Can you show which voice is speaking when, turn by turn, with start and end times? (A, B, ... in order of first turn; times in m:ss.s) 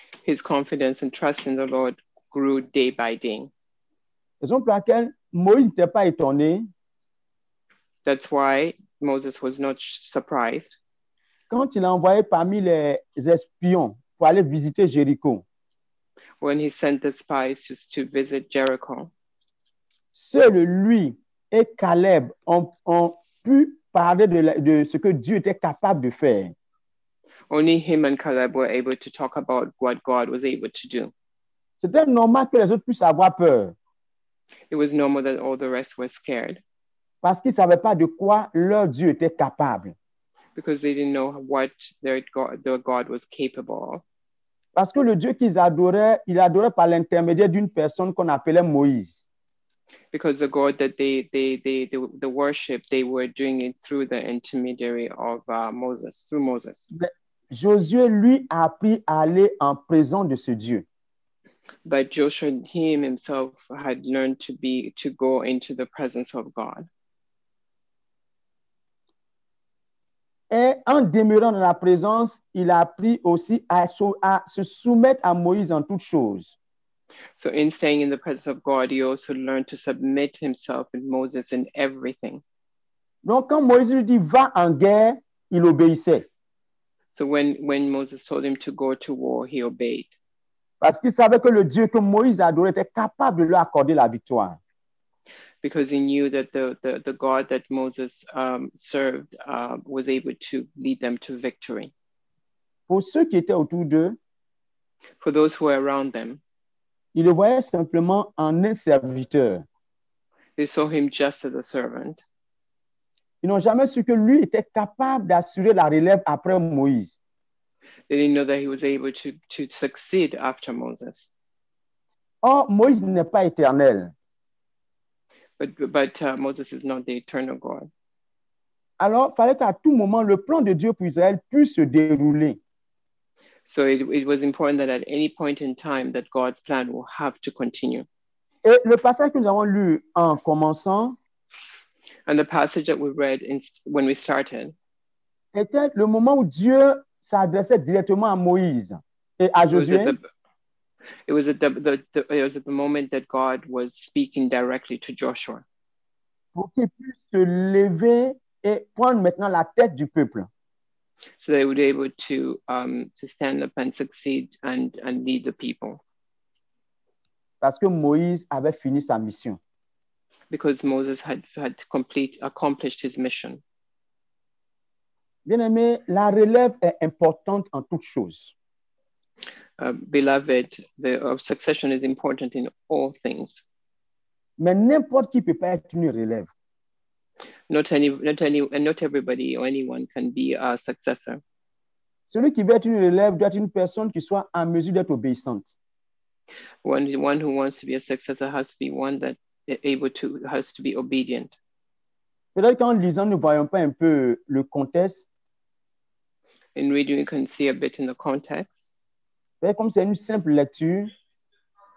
0:00.2-0:03.5 A
0:04.4-0:06.7 B
0:08.0-0:10.8 A
0:11.5-0:15.4 B
0:16.4-0:19.1 A
0:20.1-0:26.5 B
0:27.5-0:31.1 A
0:31.8-0:33.8 B
0:34.7-0:36.6 A
0:37.2-0:40.0 B
0:40.6-0:44.0 A
0:44.8-0:49.2 B
0:50.1-0:56.9 A
0:56.9-1:00.8 B
1:01.8-1:06.9 A
1:10.5-1:16.6 B
1:17.4-1:22.4 A
1:23.2-1:26.3 B
1:27.1-1:30.1 A
1:30.8-1:34.6 B
1:35.6-1:41.9 A
1:42.9-1:44.2 B
1:45.2-1:46.4 A
1:47.1-1:49.7 B
1:50.6-1:52.2 A
1:53.4-1:57.2 B
1:58.1-2:01.3 A
2:02.4-2:04.1 B
2:05.6-2:07.9 A
2:09.0-2:12.6 B
2:13.7-2:18.1 A
2:18.6-2:21.2 B
2:22.3-2:24.8 A
2:25.5-2:30.2 B
2:29.7-2:30.2 A
2:31.3-2:35.6 A
2:36.6-2:40.5 B
2:41.4-2:46.0 A
2:47.6-2:49.6 B
2:50.5-2:53.6 A
2:55.5-2:58.5 B
2:59.8-3:03.6 A
3:04.6-3:06.5 B
3:07.7-3:11.4 A
3:12.3-3:15.7 B
3:16.8-3:21.5 A
3:22.6-3:25.2 B
3:26.8-3:28.9 A
3:29.6-3:31.1 B